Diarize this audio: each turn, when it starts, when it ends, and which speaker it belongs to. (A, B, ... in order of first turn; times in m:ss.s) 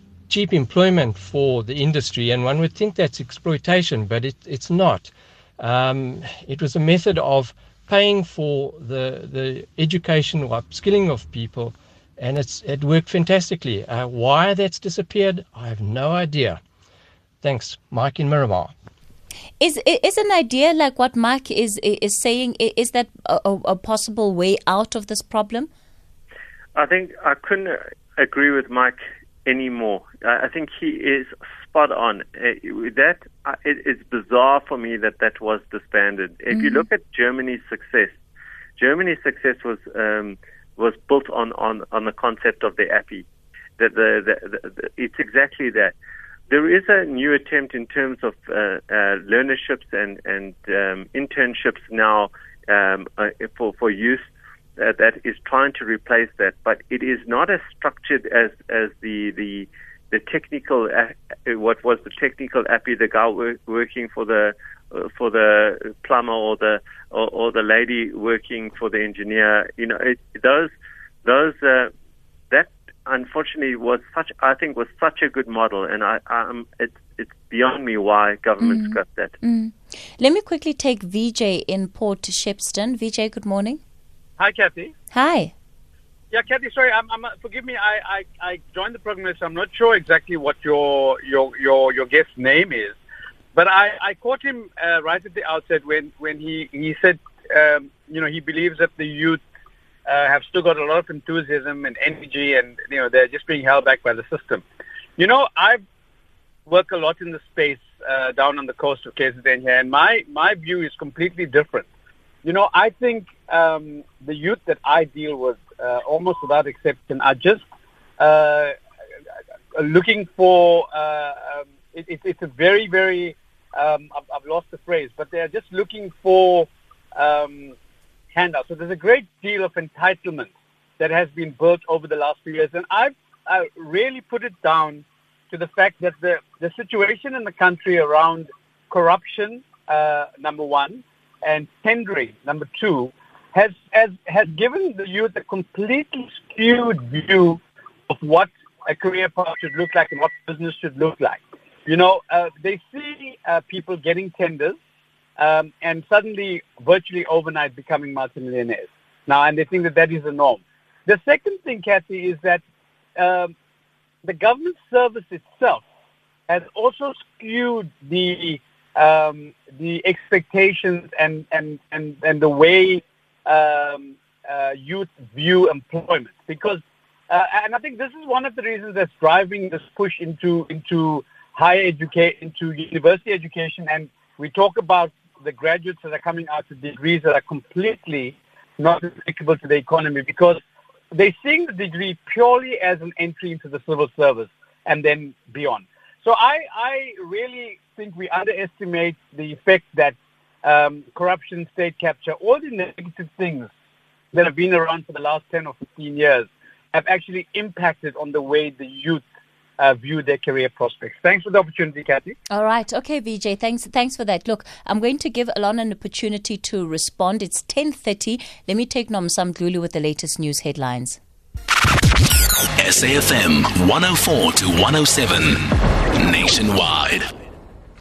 0:00.3-0:16.6 A
0:17.4-0:18.7 A
0:19.6-0:25.7 B
0:26.7-0:38.2 C
0:36.5-0:36.8 B
0:38.8-0:43.2 C
0:43.8-0:45.9 C
0:46.5-1:10.7 C
1:11.2-1:11.9 C
1:12.5-1:19.3 C
1:18.6-1:23.8 B
1:24.4-1:24.9 D
1:25.1-1:25.5 B
1:26.3-1:33.0 D
1:33.5-1:39.4 D
1:40.0-1:44.6 D
1:45.2-1:45.8 D
1:46.6-1:51.9 D
1:52.4-1:57.6 D
1:58.2-1:58.7 D
1:59.7-2:07.7 D
2:08.3-2:34.8 D
2:35.4-2:42.6 D
2:43.2-2:43.5 D
2:44.2-2:45.8 D
2:46.5-3:10.6 D
3:11.1-3:23.7 D
3:24.3-3:29.2 D
3:29.8-3:32.4 D
3:32.5-3:41.2 B
3:42.8-3:45.6 E
3:46.2-3:47.2 E